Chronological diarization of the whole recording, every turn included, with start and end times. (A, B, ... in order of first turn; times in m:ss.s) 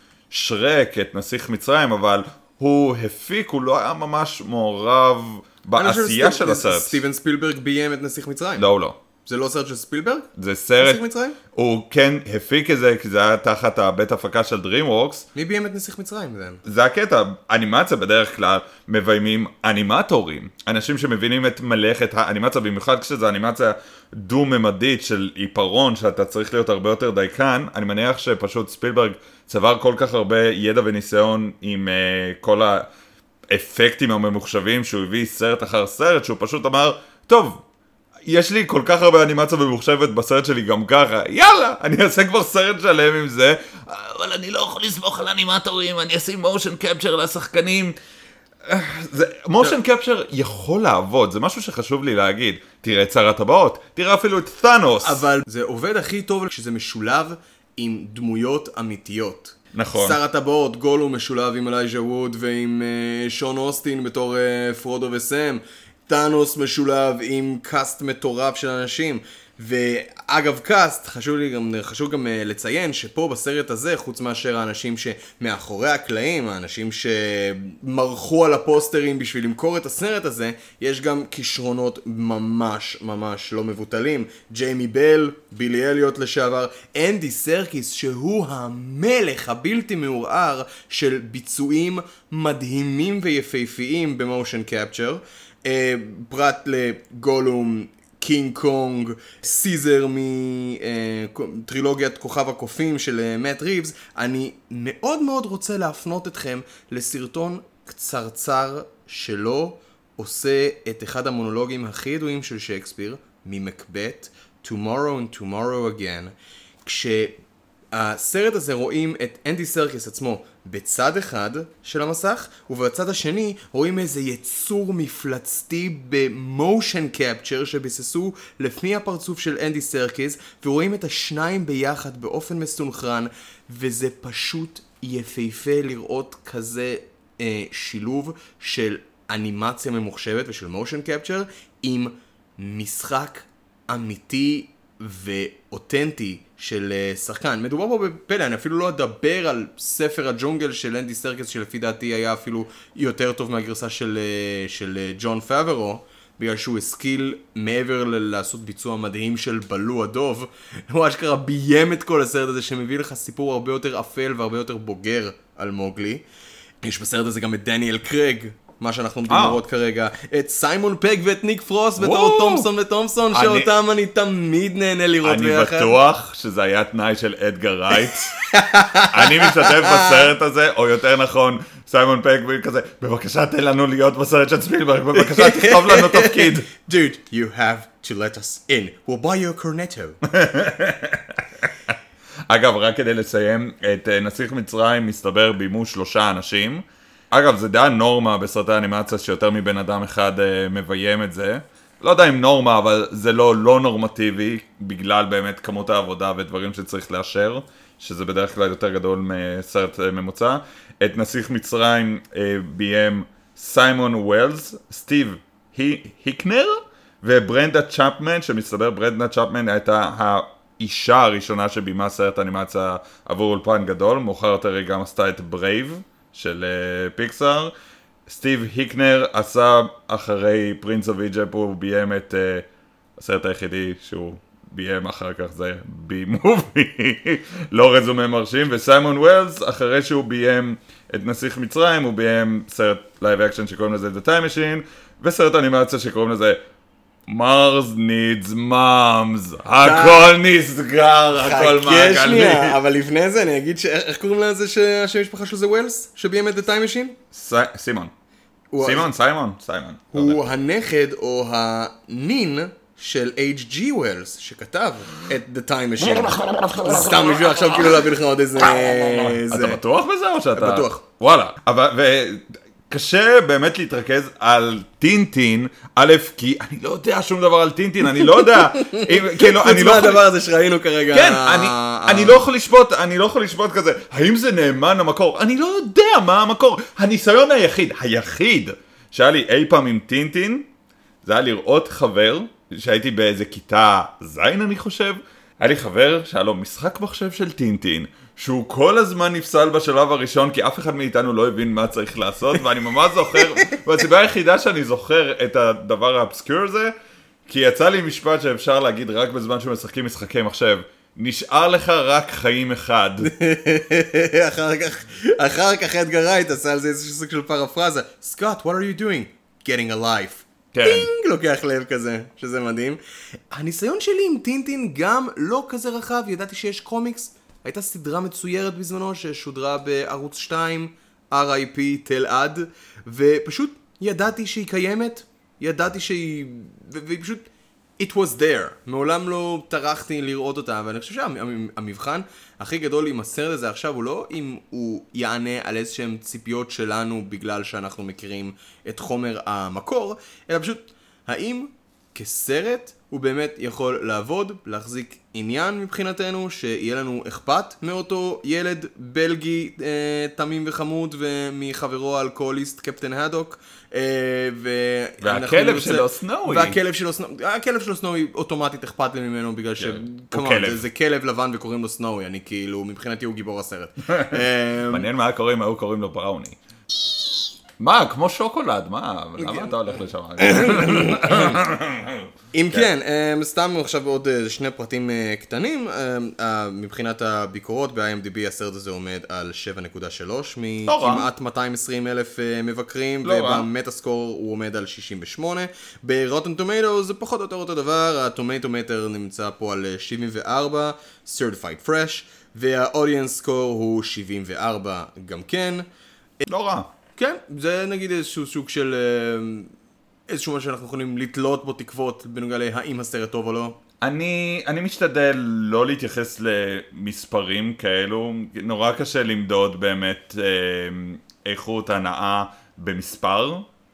0:00.3-0:07.0 A
0:05.8-0:08.6 B
0:08.6-0:09.0 A
0:09.2-0:10.3 B
0:10.4-0:11.0 A
0:10.8-0:11.4 B
0:11.5-0:15.3 A
0:15.4-0:16.6 B
0:16.6-0:32.9 A
0:33.5-0:37.6 A
0:38.2-0:48.0 A
0:48.6-0:55.2 A
0:55.0-1:57.4 B
0:59.7-1:00.2 A
1:57.9-2:46.2 B
2:46.8-2:56.0 B
2:49.3-2:49.6 A
2:52.0-2:52.7 A
2:53.3-2:53.7 A
2:55.2-2:58.4 A
2:58.4-3:00.2 B
2:59.1-3:06.7 A
3:05.1-3:10.2 B
3:10.2-3:11.9 A
3:12.5-3:47.7 A
3:48.3-4:06.6 A
4:07.3-4:12.8 A
4:09.8-4:10.3 B
4:11.4-4:17.2 B
4:17.3-4:18.1 A
4:18.7-4:19.1 B
4:18.8-4:20.5 A
4:20.1-4:29.8 B
4:26.1-4:27.9 A
4:28.7-4:40.3 A
4:30.5-4:31.0 B
4:38.2-4:42.5 B
4:41.1-4:50.7 A
4:51.2-5:06.9 A
5:03.3-5:03.7 B
5:07.5-5:13.3 A
5:13.2-5:23.0 B
5:20.7-5:21.1 A
5:23.5-5:37.5 B
5:38.0-6:15.1 B
6:05.2-6:06.8 A
6:09.8-6:10.8 A
6:14.2-6:22.9 A
6:19.4-6:21.6 B
6:22.5-6:45.9 B
6:30.9-6:31.3 A
6:33.2-6:33.7 A
6:46.4-6:46.9 A
6:47.2-6:49.7 B
6:50.3-6:53.8 B
6:54.0-7:03.7 A